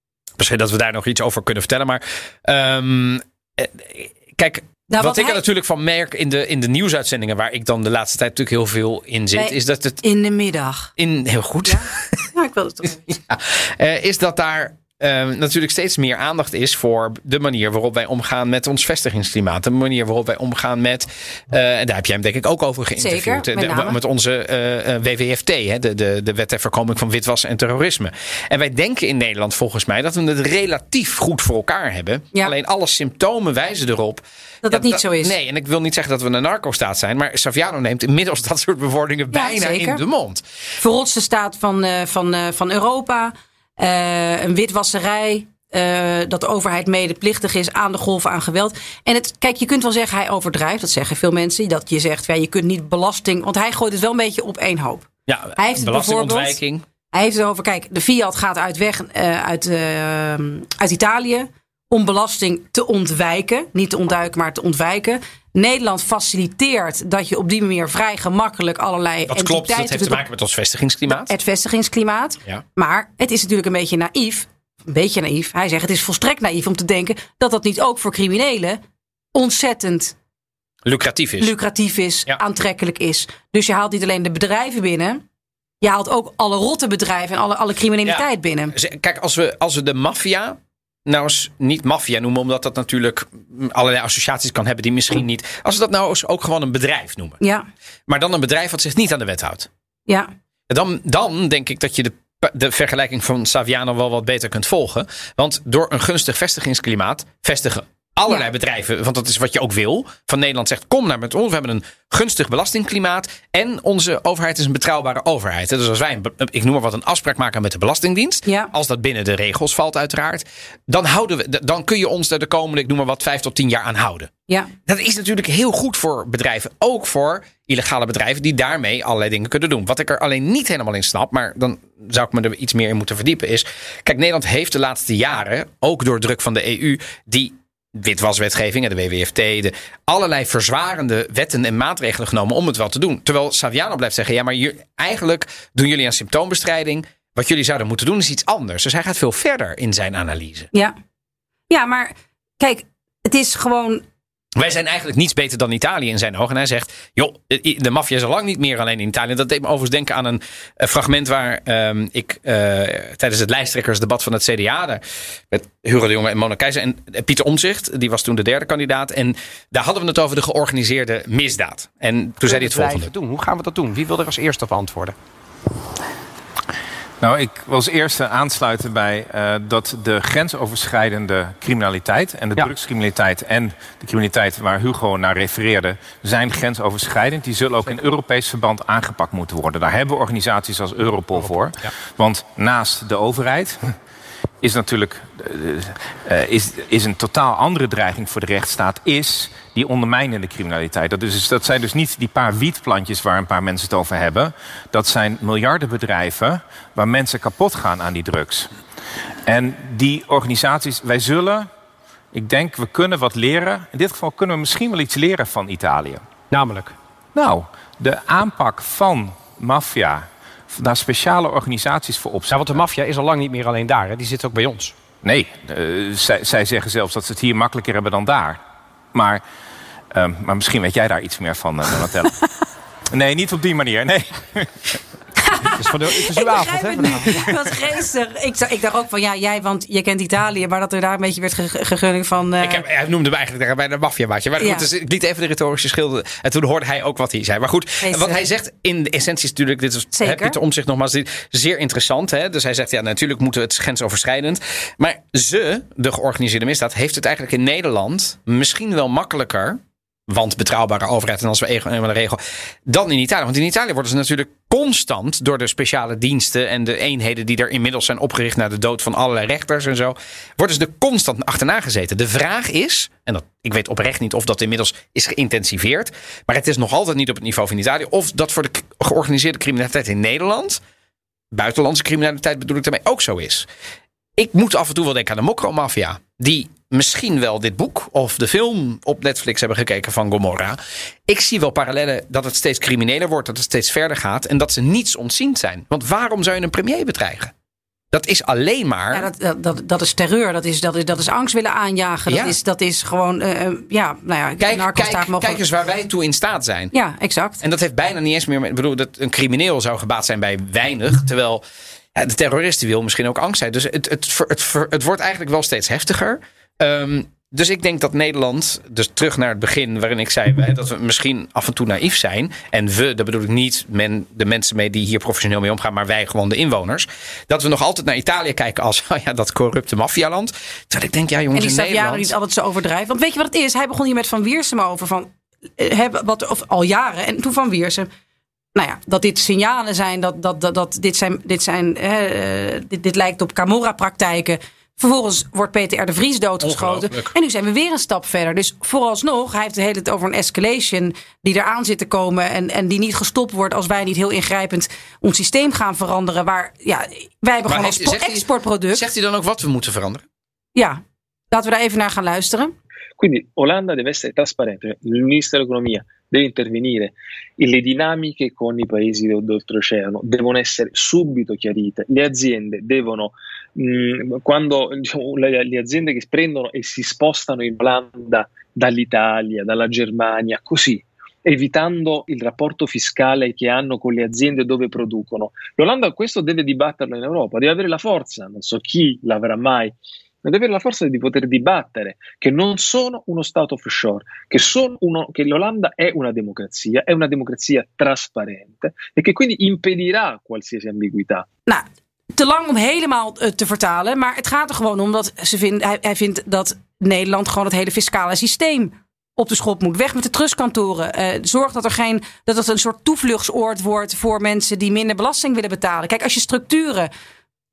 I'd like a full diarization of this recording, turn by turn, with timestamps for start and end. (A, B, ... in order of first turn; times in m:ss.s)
0:00.4-0:10.0 A
0:04.9-0:05.4 B
0:09.4-0:10.9 B
0:11.0-0:11.9 A
0:11.7-0:13.2 B
0:13.1-0:40.4 A
0:23.0-0:24.0 B
0:34.6-0:35.4 B
0:39.3-0:40.0 B
0:40.8-0:56.6 B
0:55.3-0:56.8 A
0:57.1-1:10.2 B
1:09.3-1:11.3 A
1:11.1-1:18.8 B
1:19.3-1:20.1 B
1:20.8-1:21.5 A
1:21.4-1:25.2 B
1:25.8-1:28.7 B
1:28.1-1:37.4 A
1:38.1-1:39.7 A
1:40.7-2:04.3 A
2:04.9-2:30.7 A
2:31.7-2:34.0 B
2:34.6-2:53.1 A
2:52.4-2:55.2 C
2:57.2-3:13.8 D
3:14.6-3:28.7 D
3:29.5-3:31.7 D
3:32.3-3:36.3 D
3:36.5-3:37.0 C
3:37.4-3:42.8 D
3:42.5-3:45.0 C
3:45.2-3:48.6 D
3:49.1-3:49.4 D
3:50.1-3:52.4 D
3:53.1-3:55.0 D
3:55.4-4:02.8 B
3:55.8-3:57.3 C
4:02.6-4:40.8 A
4:04.6-4:04.9 B
4:08.0-4:08.4 B
4:10.2-4:10.6 B
4:41.5-4:43.7 A
4:44.4-4:57.5 A
4:58.1-4:59.3 A
4:59.1-5:05.6 B
5:02.3-5:02.6 A
5:04.6-5:06.9 A
5:06.9-5:07.6 B
5:07.6-5:11.6 A
5:12.2-5:32.3 A
5:31.5-5:38.1 B
5:38.8-5:59.1 B
5:46.6-5:47.3 A
5:57.7-6:00.2 A
6:00.8-6:01.0 B
6:01.5-6:02.7 B
6:03.2-6:41.5 E
6:41.7-6:57.1 B